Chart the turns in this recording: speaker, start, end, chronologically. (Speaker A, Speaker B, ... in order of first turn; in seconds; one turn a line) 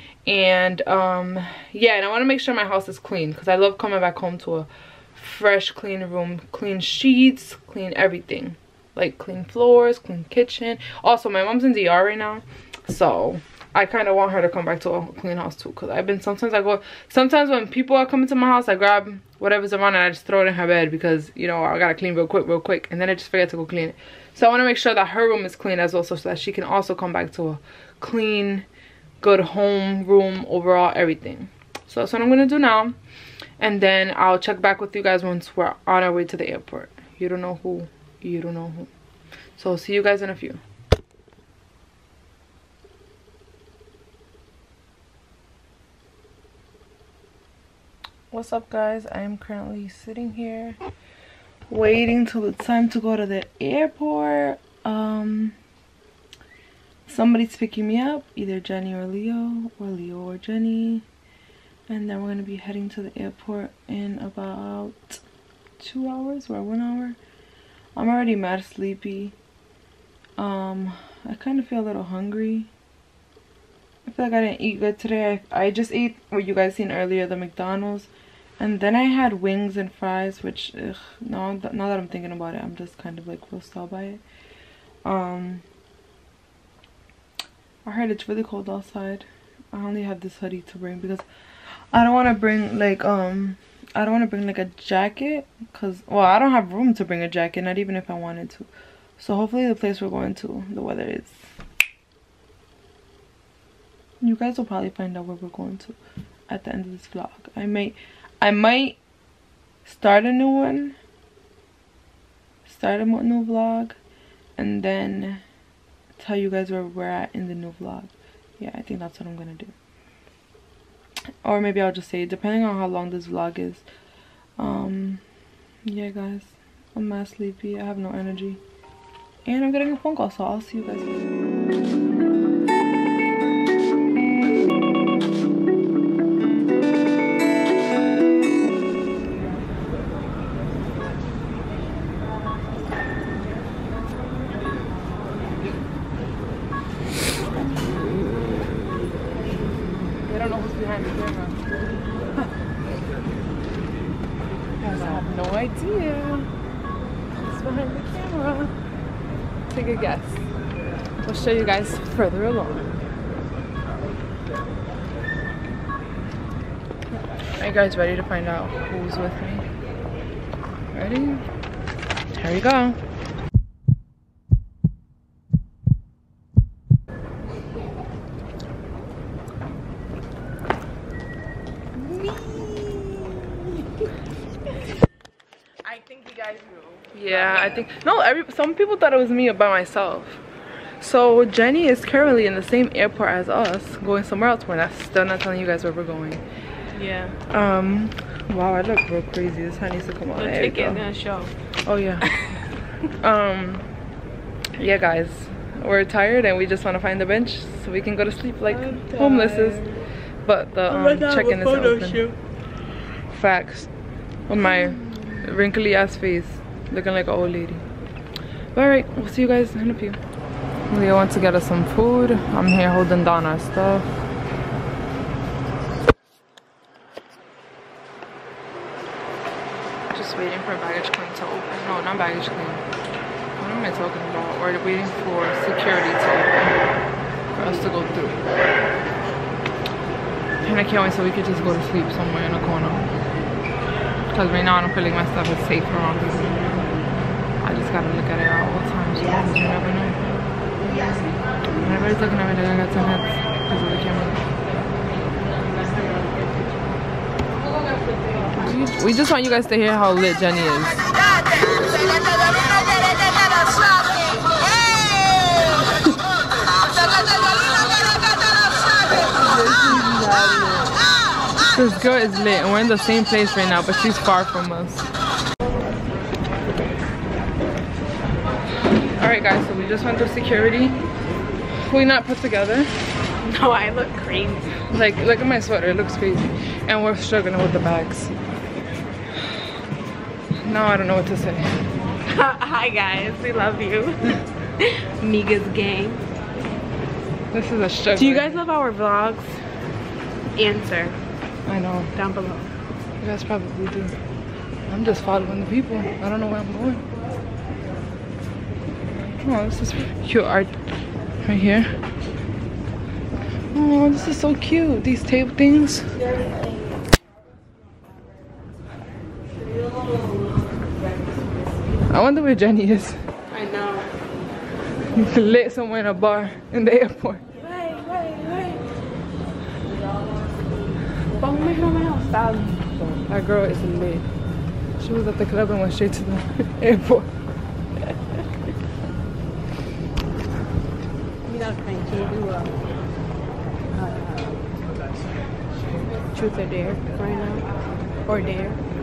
Speaker A: 0.3-28.6
Speaker A: 29.2-33.0
Speaker A: 33.6-38.9
Speaker A: 39.6-40.6
Speaker A: 48.3-50.8
Speaker A: 51.7-55.6
Speaker A: 57.1-61.0
Speaker A: 61.9-65.2
Speaker A: 65.8-67.2
Speaker A: 68.0-69.3
Speaker A: 70.4-72.7
Speaker A: 74.1-84.2
Speaker A: 85.0-85.6
Speaker A: 87.8-91.2
Speaker A: 91.9-101.4
Speaker A: 104.2-106.0
Speaker A: 106.5-109.0
Speaker A: 109.8-111.0
Speaker A: 112.7-114.0
Speaker A: 114.6-115.4
Speaker A: 116.2-119.7
Speaker A: 121.4-123.8
Speaker A: 124.6-125.2
Speaker A: 125.8-128.6
Speaker A: 129.5-131.2
Speaker A: 150.3-151.6
Speaker A: 154.8-156.5
Speaker A: 157.4-158.7
Speaker A: 159.7-160.4
Speaker A: 161.2-162.9
Speaker A: 167.6-169.7
Speaker A: 170.9-171.4
Speaker A: 172.4-173.0
Speaker A: 182.4-182.8
Speaker B: 185.8-187.9
Speaker A: 187.1-190.4
Speaker A: 191.0-196.4
Speaker B: 196.9-197.4
Speaker A: 197.5-201.0
Speaker B: 200.3-201.5
Speaker A: 201.9-202.4
Speaker A: 203.2-203.8
Speaker A: 204.8-212.3
Speaker B: 208.7-210.0
Speaker B: 210.9-212.3
Speaker A: 213.3-213.9
Speaker A: 214.5-217.8
Speaker B: 214.6-215.4
Speaker A: 218.8-220.2
Speaker A: 220.9-224.1
Speaker A: 230.1-232.8
Speaker A: 233.6-236.8
Speaker A: 237.6-238.4
Speaker A: 240.7-243.1
Speaker A: 244.3-246.6
Speaker A: 247.6-250.2
Speaker A: 251.7-254.4
Speaker B: 255.4-257.0
Speaker B: 257.7-258.8
Speaker A: 258.5-261.1
Speaker B: 269.5-270.9
Speaker A: 269.6-270.1
Speaker A: 271.8-275.1
Speaker A: 279.2-281.0
Speaker A: 281.8-282.9
Speaker B: 283.4-284.8
Speaker A: 284.9-288.3
Speaker A: 290.6-291.8
Speaker B: 292.3-296.2
Speaker A: 297.5-298.6
Speaker B: 298.2-299.5
Speaker B: 300.6-301.2
Speaker A: 301.7-302.1
Speaker B: 302.1-302.7
Speaker A: 303.2-304.1
Speaker A: 304.9-307.0
Speaker A: 309.4-310.7
Speaker A: 311.4-311.9
Speaker A: 313.7-316.1
Speaker A: 322.1-323.2
Speaker B: 323.5-324.1
Speaker A: 325.1-327.4
Speaker B: 327.6-328.9
Speaker B: 331.4-333.2
Speaker A: 333.3-334.2
Speaker A: 335.0-337.3
Speaker B: 341.5-342.8
Speaker B: 343.9-344.6
Speaker B: 346.2-347.6
Speaker B: 348.3-348.8